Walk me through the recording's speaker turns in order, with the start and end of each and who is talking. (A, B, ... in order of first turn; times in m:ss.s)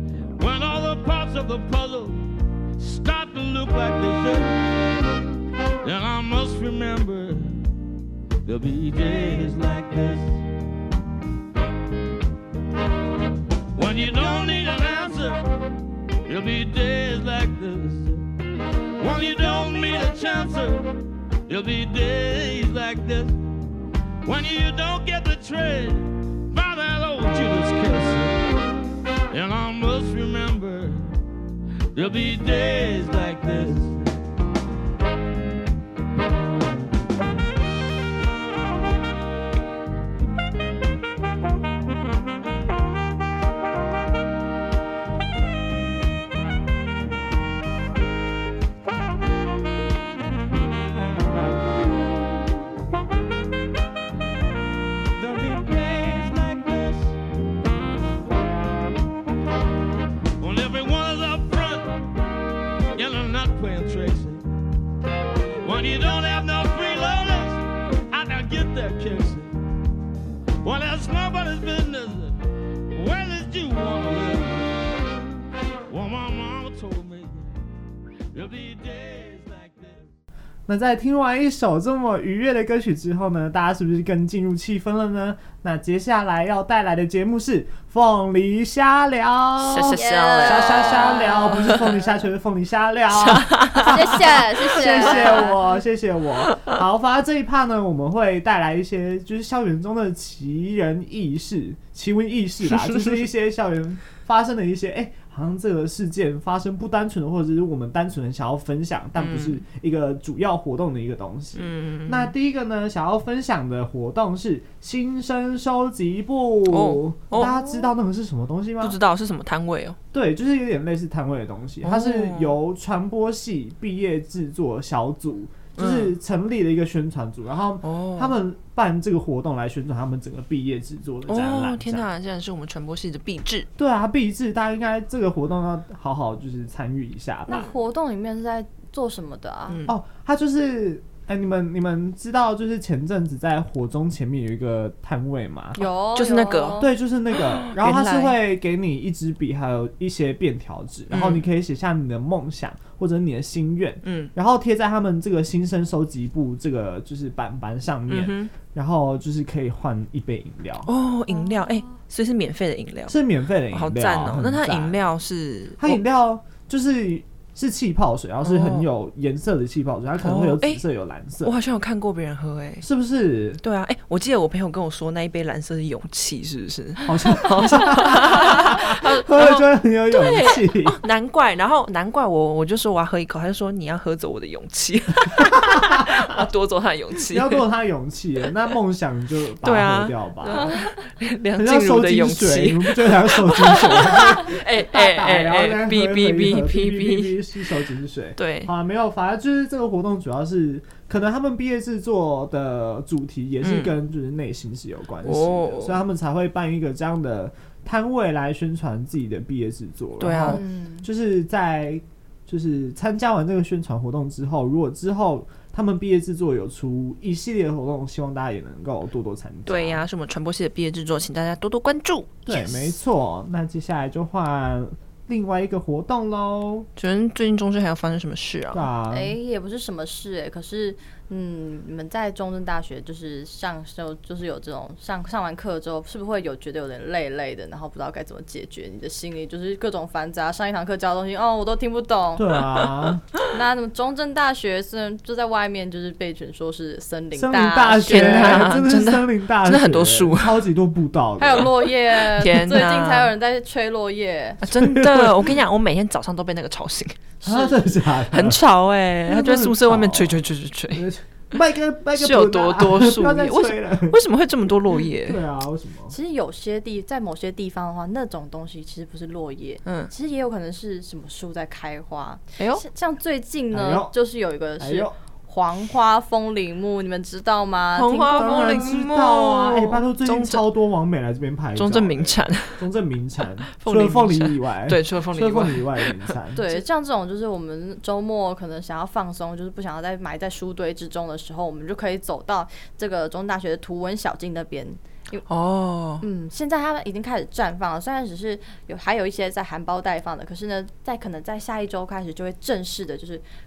0:00.3-0:04.9 A
0:05.8-0:07.6 A
0:08.4-0:10.4 A
0:13.7-0:15.4 A
0:16.2-0:18.2 A
0:19.0-0:23.4 A
0:24.2-0:28.4 A
0:29.3-0:31.2 A
0:31.9-0:34.1 A
0:55.2-0:57.2 A
1:00.4-1:02.0 A
1:02.9-1:04.4 A
1:05.6-1:09.5 A
1:10.6-1:12.4 A
1:12.9-1:15.0 A
1:15.9-1:17.6 A
1:18.3-1:20.1 A
1:20.7-1:59.0 B
1:29.6-1:31.9 C
1:29.9-1:31.9 D
1:33.2-1:35.5 C
1:33.7-1:35.6 D
1:49.2-1:49.6 C
1:51.5-1:52.3 C
1:56.7-1:57.9 C
1:58.8-2:00.0 C
2:00.1-2:12.1 B
2:01.8-2:02.6 C
2:05.8-2:06.1 C
2:07.8-2:08.4 C
2:11.3-2:13.7 C
2:13.8-2:17.7 B
2:17.5-2:19.8 D
2:19.9-2:25.8 B
2:25.8-2:26.9 D
2:26.1-2:28.4 C
2:26.8-2:40.9 B
2:31.1-2:31.4 C
2:34.0-2:34.3 C
2:38.1-2:38.5 C
2:40.8-2:43.2 C
2:43.1-2:45.0 B
2:43.7-2:46.0 C
2:45.8-2:51.5 B
2:48.4-2:48.8 C
2:50.2-2:50.8 C
2:51.4-2:52.9 C
2:52.8-2:53.6 B
2:53.6-3:07.6 C
2:57.0-3:01.0 B
3:05.4-3:06.4 B
3:07.3-3:10.8 B
3:09.6-3:17.7 C
3:11.6-3:40.0 B
3:18.4-3:18.7 C
3:23.6-3:23.9 C
3:25.2-3:26.0 C
3:30.2-3:30.6 C
3:30.5-3:31.0 D
3:39.7-3:42.9 C
3:42.5-3:46.9 B
3:47.0-3:48.9 C
3:48.7-3:49.3 B
3:49.1-4:02.6 D
4:02.4-4:03.2 B
4:03.5-4:08.7 D
4:07.3-4:11.7 B
4:08.0-4:10.7 C
4:11.4-4:14.6 D
4:12.2-4:13.3 C
4:14.6-4:17.2 C
4:14.6-4:15.5 B
4:17.4-4:17.9 D
4:17.4-4:18.6 B
4:18.3-4:21.1 C
4:19.3-4:20.4 B
4:20.9-4:24.2 B
4:22.2-4:25.4 C
4:25.1-4:26.1 B
4:26.1-4:38.7 D
4:29.8-4:30.1 C
4:32.6-4:32.8 C
4:33.7-4:34.2 B
4:34.8-4:35.1 B
4:37.9-4:40.6 C
4:38.3-4:46.6 B
4:41.8-4:42.9 C
4:43.8-4:46.3 C
4:46.5-4:55.4 D
4:55.5-4:56.2 C
4:56.2-5:03.4 D